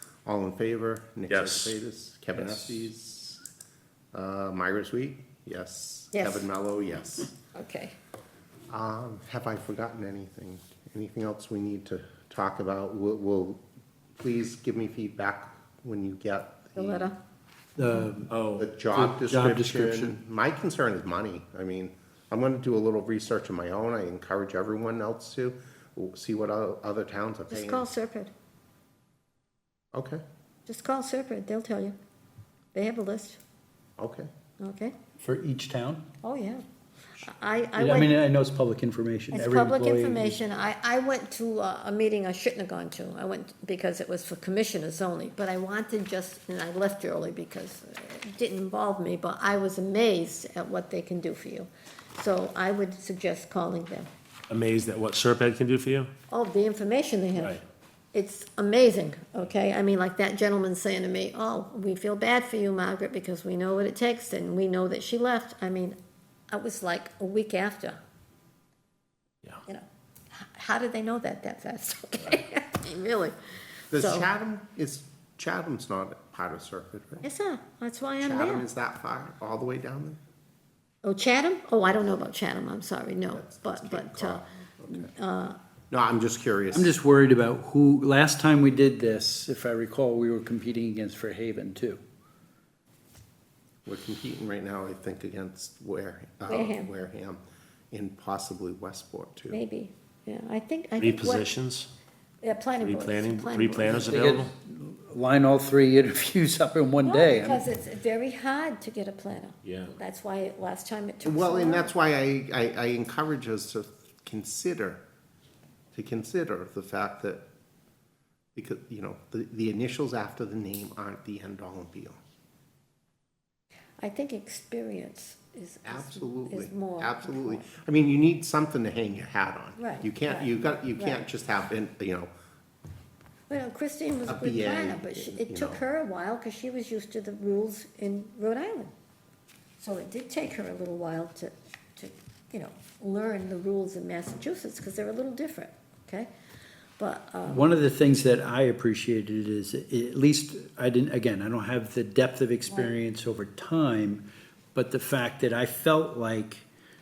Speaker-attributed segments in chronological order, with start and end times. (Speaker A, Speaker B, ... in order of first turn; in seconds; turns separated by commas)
Speaker A: 0.3-3.4, Speaker B: 1.3-1.8, Speaker C: 2.3-2.9, Speaker A: 4.1-7.4, Speaker D: 6.1-6.5, Speaker D: 7.5-8.0, Speaker A: 8.7-13.6, Speaker A: 14.2-17.1, Speaker D: 16.8-17.2, Speaker C: 17.8-18.3, Speaker B: 18.3-18.7, Speaker A: 18.6-27.9, Speaker C: 18.9-20.2, Speaker D: 27.5-28.3, Speaker A: 29.9-30.2, Speaker D: 30.7-31.9, Speaker D: 32.7-33.4, Speaker A: 34.0-34.3, Speaker D: 34.6-34.9, Speaker C: 35.2-36.0, Speaker D: 36.2-36.6, Speaker D: 37.2-38.1, Speaker C: 37.8-40.4, Speaker D: 39.3-54.1, Speaker B: 54.5-56.1, Speaker D: 56.3-57.6, Speaker B: 57.4-57.6, Speaker D: 58.1-66.0, Speaker D: 66.5-68.0, Speaker D: 70.4-73.3, Speaker A: 73.9-77.3, Speaker D: 74.0-74.3, Speaker D: 77.2-78.7, Speaker A: 78.2-80.2, Speaker D: 81.0-85.6, Speaker A: 83.3-85.1, Speaker A: 85.9-87.0, Speaker C: 86.7-92.0, Speaker A: 93.8-99.6, Speaker D: 96.5-96.9, Speaker D: 99.5-101.5, Speaker B: 101.0-101.9, Speaker D: 102.4-104.3, Speaker B: 102.8-104.5, Speaker C: 104.0-107.7, Speaker D: 107.0-111.9, Speaker B: 109.6-110.0, Speaker A: 111.2-115.0, Speaker A: 115.9-117.4, Speaker A: 118.6-122.2, Speaker D: 124.0-127.7, Speaker A: 125.8-132.3, Speaker D: 129.8-131.2, Speaker D: 133.5-138.9, Speaker A: 134.3-135.8, Speaker D: 139.8-146.3, Speaker D: 147.0-147.7, Speaker C: 147.5-156.7